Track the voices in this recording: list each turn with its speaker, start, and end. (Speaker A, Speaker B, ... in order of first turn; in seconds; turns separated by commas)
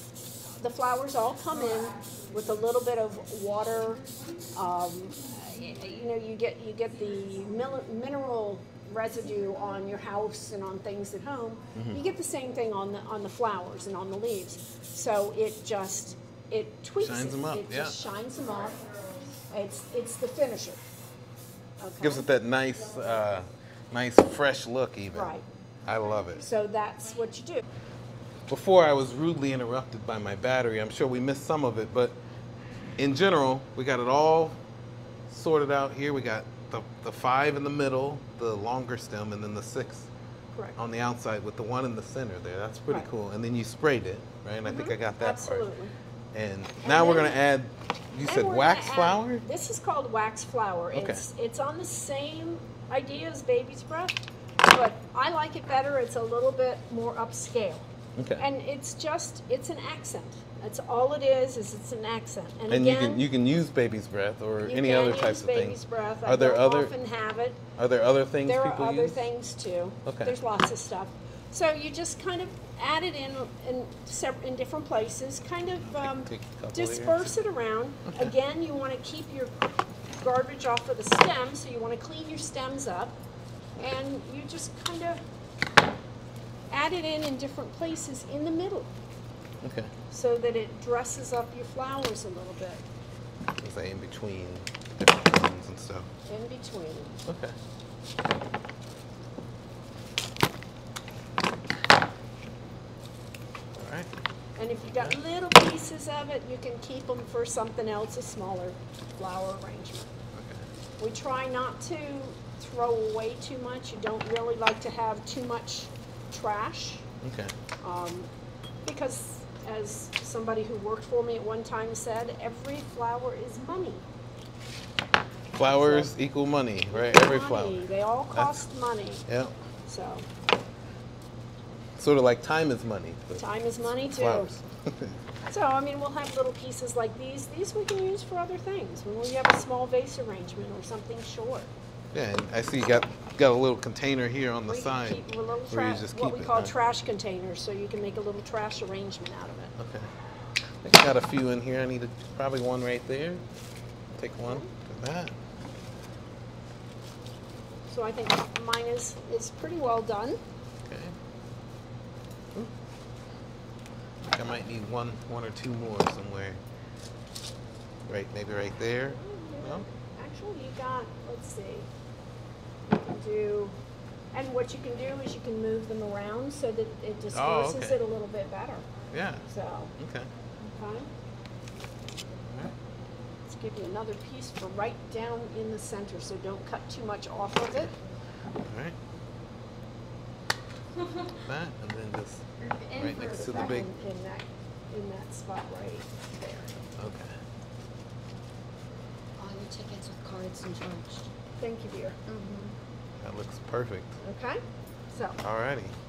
Speaker A: 0.6-18.9, Speaker B: 11.7-12.0, Speaker B: 17.0-18.0, Speaker A: 19.5-20.8, Speaker A: 21.8-22.3, Speaker B: 22.0-25.3, Speaker A: 25.1-25.4, Speaker B: 25.8-26.4, Speaker A: 26.4-27.6, Speaker B: 28.5-32.2, Speaker B: 33.0-34.6, Speaker B: 35.3-40.1, Speaker B: 40.8-45.7, Speaker A: 44.6-45.9, Speaker B: 46.3-49.4, Speaker A: 46.8-47.4, Speaker A: 48.2-63.2, Speaker B: 50.9-51.2, Speaker B: 58.1-58.4, Speaker B: 62.7-66.9, Speaker A: 64.6-67.6, Speaker B: 67.8-69.2, Speaker A: 68.5-83.2, Speaker B: 70.0-70.3, Speaker B: 75.8-77.3, Speaker A: 83.8-85.2, Speaker A: 86.7-88.9, Speaker B: 89.6-89.9, Speaker A: 90.1-92.8, Speaker B: 93.6-96.1, Speaker A: 96.2-97.2, Speaker B: 97.2-97.5, Speaker B: 103.7-104.1, Speaker A: 104.6-110.1, Speaker B: 110.3-110.7, Speaker A: 111.0-117.0, Speaker B: 117.2-117.5, Speaker A: 117.8-118.3, Speaker A: 118.8-124.0, Speaker B: 125.5-128.6, Speaker A: 125.6-126.1, Speaker A: 126.9-129.2, Speaker B: 129.3-129.5, Speaker A: 129.8-130.3, Speaker B: 132.0-135.2, Speaker A: 133.4-134.5, Speaker A: 135.4-141.7, Speaker B: 142.1-146.7, Speaker A: 144.7-149.7, Speaker B: 149.8-150.1, Speaker B: 150.7-153.4, Speaker B: 154.1-155.3, Speaker A: 154.4-154.7, Speaker A: 157.9-160.4, Speaker B: 160.8-161.2, Speaker B: 164.3-166.6, Speaker B: 168.1-169.8, Speaker A: 169.1-171.9, Speaker A: 172.8-173.8, Speaker A: 174.3-178.9, Speaker B: 177.3-178.0, Speaker B: 179.1-179.4, Speaker A: 179.5-179.9, Speaker B: 180.0-180.3, Speaker A: 180.7-181.1, Speaker B: 182.5-182.7, Speaker A: 183.5-187.9, Speaker B: 188.6-189.0, Speaker B: 191.4-193.9, Speaker C: 192.6-193.9, Speaker A: 193.2-196.8, Speaker B: 197.0-197.3, Speaker C: 199.4-201.3, Speaker A: 201.6-202.2, Speaker C: 202.2-202.8, Speaker B: 203.2-204.2, Speaker A: 204.2-205.4, Speaker B: 205.4-205.9